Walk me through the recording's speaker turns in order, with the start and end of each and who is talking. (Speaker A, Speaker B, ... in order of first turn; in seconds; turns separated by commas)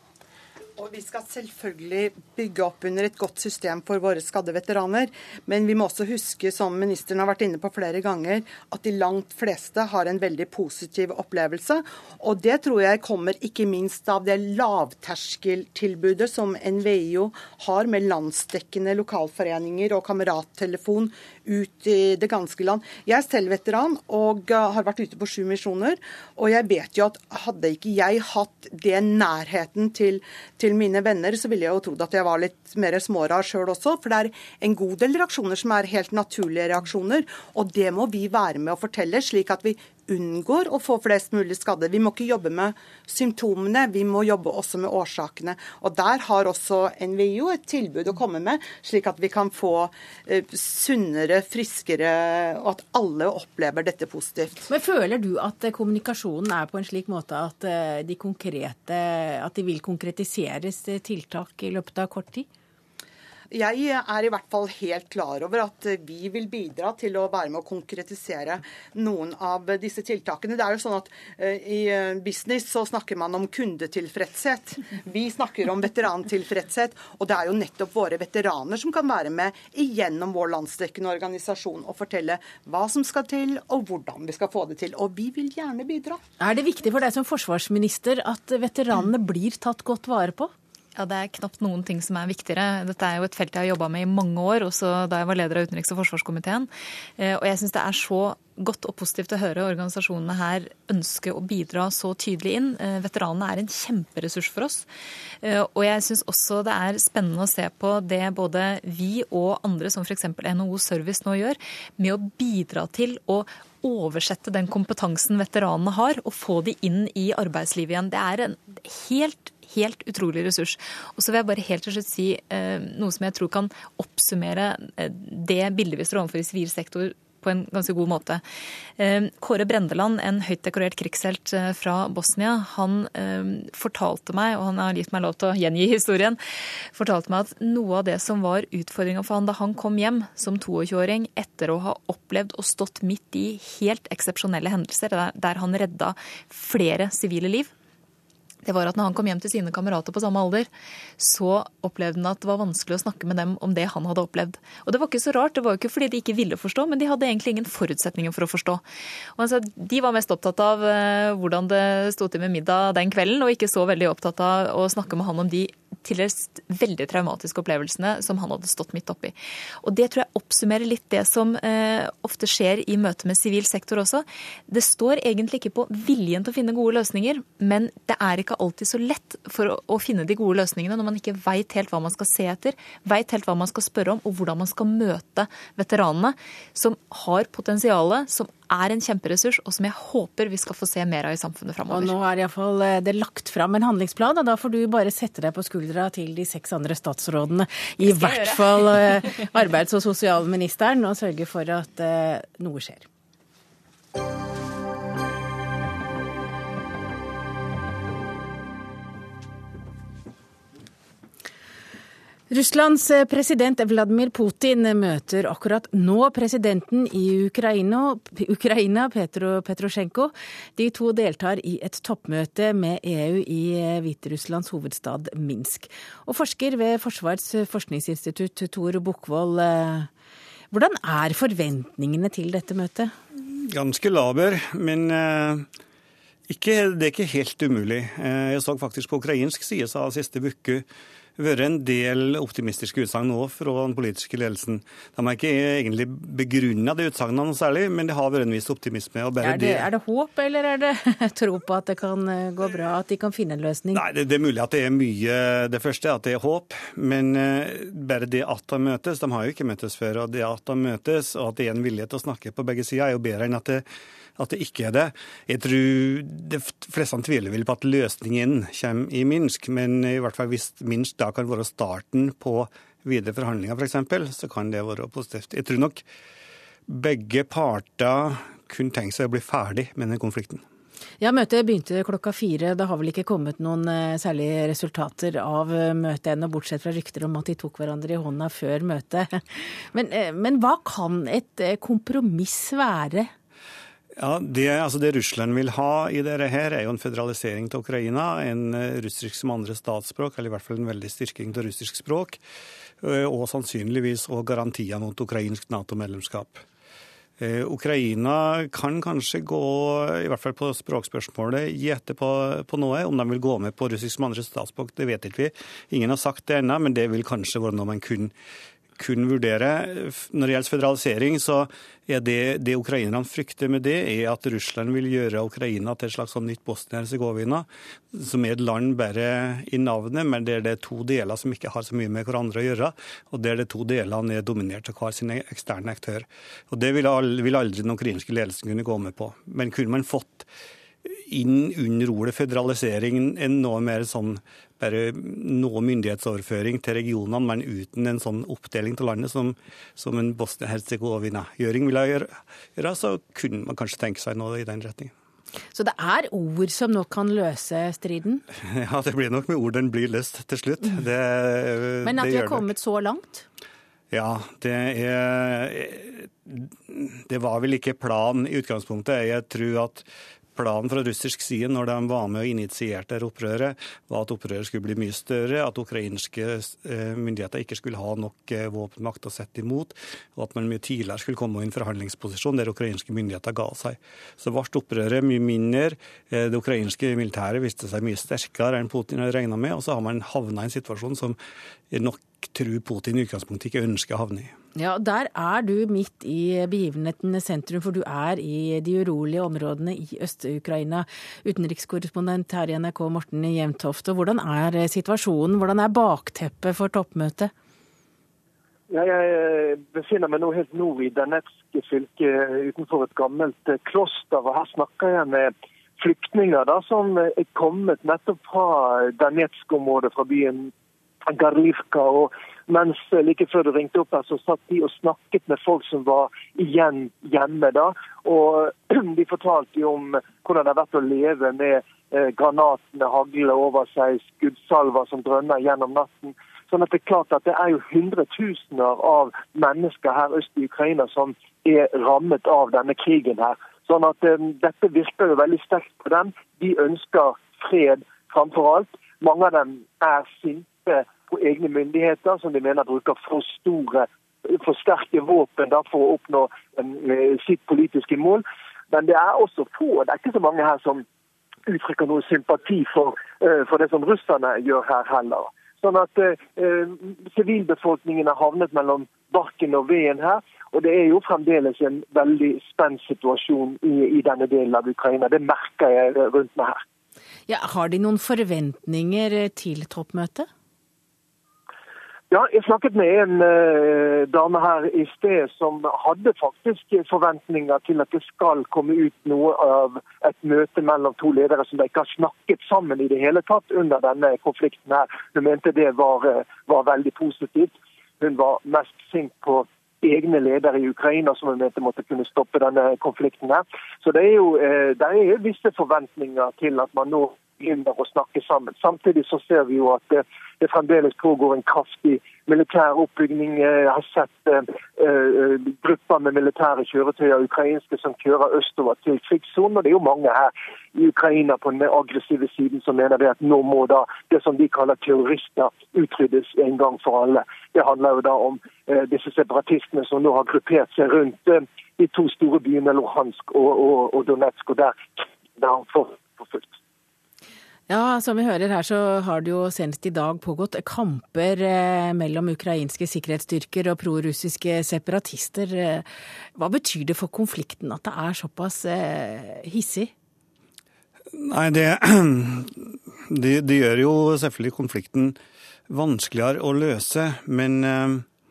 Speaker A: 0.8-54.7, Speaker B: 54.7-62.5, Speaker A: 63.5-86.2, Speaker B: 86.4-90.5, Speaker C: 91.0-104.9, Speaker C: 105.4-128.4, Speaker C: 129.0-136.4, Speaker C: 136.9-147.7, Speaker C: 148.6-158.8, Speaker C: 159.3-192.1, Speaker B: 191.9-203.1, Speaker C: 198.0-199.2, Speaker B: 212.5-230.1, Speaker B: 230.7-233.1, Speaker D: 233.4-235.7, Speaker D: 236.5-240.8, Speaker D: 241.4-249.9, Speaker B: 249.4-254.0, Speaker D: 253.9-263.8, Speaker D: 264.4-276.0, Speaker D: 276.9-280.6, Speaker B: 281.2-293.3, Speaker D: 294.2-302.4, Speaker D: 303.0-306.6, Speaker D: 307.4-318.3, Speaker D: 319.0-340.5, Speaker D: 341.1-355.1, Speaker B: 355.7-358.4, Speaker D: 358.7-362.7, Speaker B: 362.0-363.4, Speaker D: 364.1-391.4, Speaker D: 391.9-394.5, Speaker B: 394.8-407.5, Speaker E: 408.9-420.7, Speaker E: 421.2-461.0, Speaker E: 461.6-476.8, Speaker B: 477.5-480.5, Speaker E: 482.3-536.7, Speaker B: 537.9-550.1, Speaker D: 551.4-555.4, Speaker D: 555.9-558.2